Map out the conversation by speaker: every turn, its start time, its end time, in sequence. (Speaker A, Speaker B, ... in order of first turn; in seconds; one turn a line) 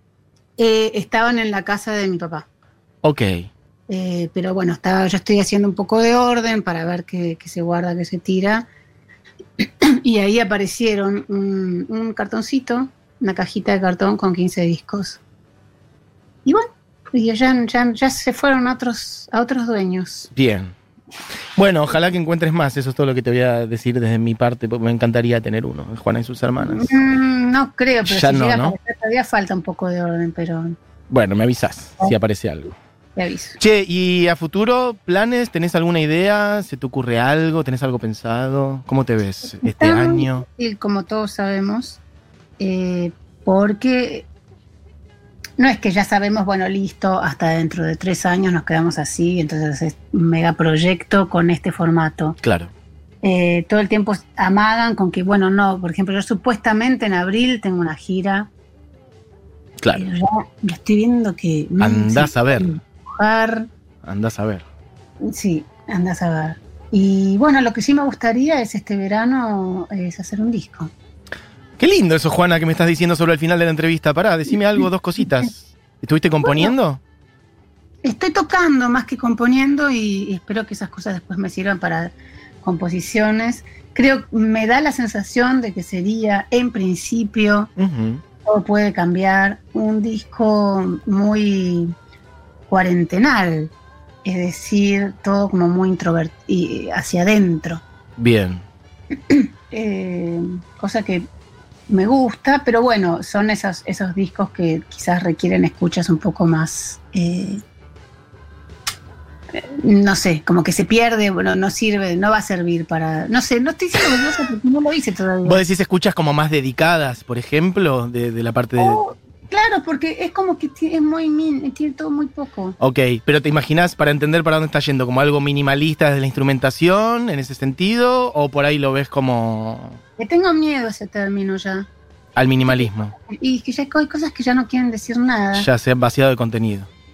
Speaker A: 0.6-2.5
Speaker B: 3.0-3.5
Speaker A: 3.9-8.7
Speaker A: 9.6-15.2
Speaker A: 16.4-20.3
Speaker B: 20.4-20.7
Speaker B: 21.6-27.0
Speaker A: 26.6-30.8
Speaker B: 28.0-28.8
Speaker B: 31.1-32.7
Speaker A: 33.1-33.6
Speaker B: 33.6-40.5
Speaker A: 39.6-42.0
Speaker A: 42.6-44.3
Speaker A: 45.6-52.4
Speaker B: 52.4-52.7
Speaker A: 53.2-58.5
Speaker B: 59.8-60.1
Speaker A: 59.9-63.7
Speaker B: 61.8-62.7
Speaker B: 64.0-64.6
Speaker A: 65.2-70.9
Speaker B: 71.8-77.0
Speaker A: 76.4-76.7
Speaker A: 78.0-87.7
Speaker B: 87.8-88.2
Speaker A: 88.4-91.9
Speaker A: 92.7-93.7
Speaker A: 94.2-97.8
Speaker B: 98.2-98.6
Speaker A: 99.3-101.3
Speaker A: 101.9-107.6
Speaker A: 109.5-115.6
Speaker B: 115.4-119.0
Speaker A: 118.8-122.8
Speaker B: 122.8-130.0
Speaker A: 130.2-131.9
Speaker B: 132.3-133.1
Speaker A: 132.7-135.7
Speaker B: 135.5-136.9